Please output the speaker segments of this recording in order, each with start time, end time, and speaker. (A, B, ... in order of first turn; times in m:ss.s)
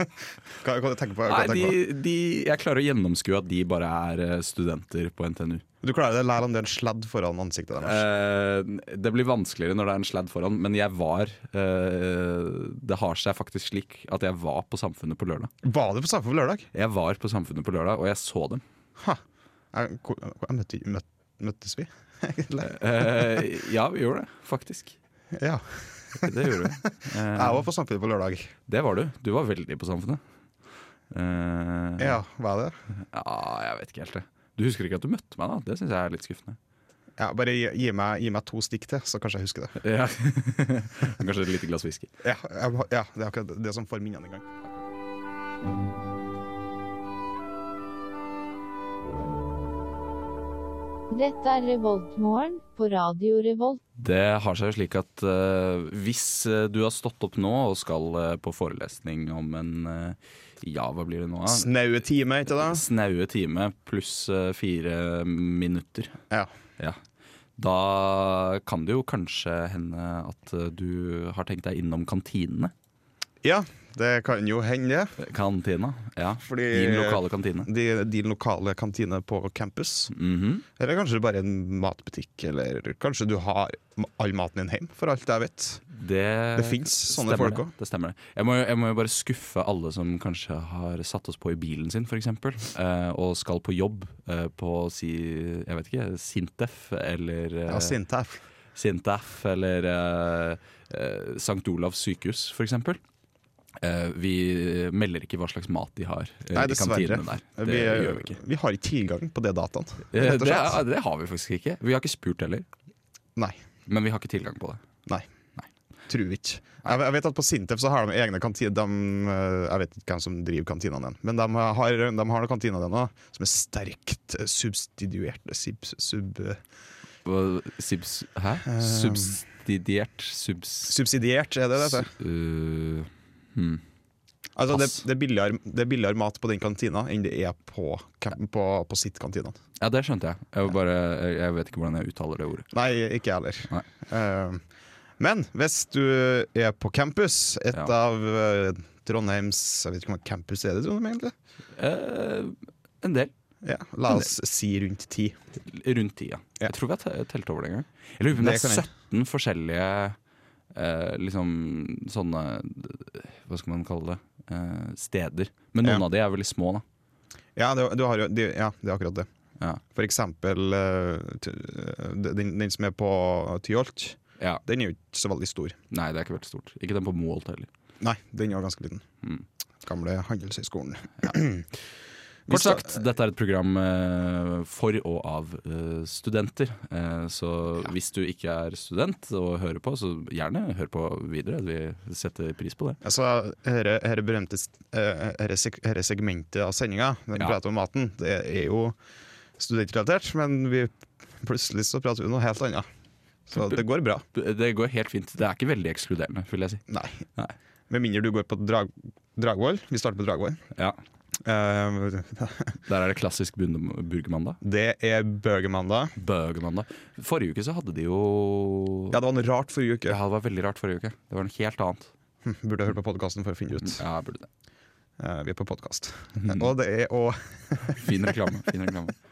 0:00.6-0:01.8 A
0:01.2-0:05.6 B
0:05.8-0:08.0 A
0:07.8-0:15.5 B
0:15.6-0:16.7 A
0:16.7-0:18.6 B
0:19.7-0:23.5 A
0:22.6-0:25.0 B
0:25.3-0:28.5 A
0:26.2-0:27.7 B
0:28.7-0:30.2 B
0:31.1-0:32.2 B
0:32.0-0:32.8 A
0:33.1-0:36.6 B
0:37.2-0:39.8 A
0:39.8-0:42.1 B
0:42.2-0:44.4 A
0:51.1-0:53.8 C
0:54.0-1:01.7 B
1:01.5-1:02.8 A
1:02.5-1:06.2 B
1:07.6-1:12.7 B
1:13.4-1:15.2 A
1:15.2-1:17.7 B
1:16.4-1:20.1 A
1:20.1-1:20.6 B
1:20.8-1:25.8 A
1:25.9-1:38.0 B
1:26.6-1:27.7 A
1:37.7-1:38.4 A
1:38.8-1:43.0 B
1:43.8-1:48.4 B
1:46.5-1:50.8 A
1:50.1-1:52.7 B
1:53.9-1:54.8 B
1:56.1-2:06.6 A
2:07.2-2:10.9 B
2:08.7-2:09.4 A
2:10.9-2:12.1 A
2:11.8-2:13.8 B
2:14.6-2:19.6 A
2:14.7-2:15.0 B
2:19.8-2:22.7 B
2:22.7-2:24.6 A
2:25.2-2:31.3 A
2:31.8-2:33.3 B
2:33.6-2:35.4 A
2:35.6-2:40.2 B
2:38.3-2:38.9 A
2:40.7-2:46.8 B
2:47.6-2:49.3 A
2:49.9-2:55.8 A
2:55.9-2:57.7 B
2:58.0-2:59.0 A
2:59.8-3:01.7 A
3:02.5-3:03.0 A
3:02.5-3:13.0 B
3:13.0-3:19.0 A
3:19.6-3:22.9 A
3:23.5-3:24.2 A
3:23.6-3:23.8 B
3:24.3-3:27.6 B
3:26.9-3:27.2 A
3:27.9-3:30.6 A
3:31.4-3:32.8 A
3:32.9-3:34.6 B
3:34.6-3:36.2 A
3:36.2-3:39.2 B
3:39.1-3:40.2 A
3:40.1-3:42.1 B
3:42.4-3:44.0 A
3:43.8-3:44.5 B
3:45.2-3:48.7 A
3:46.4-3:46.7 B
3:47.9-3:49.1 B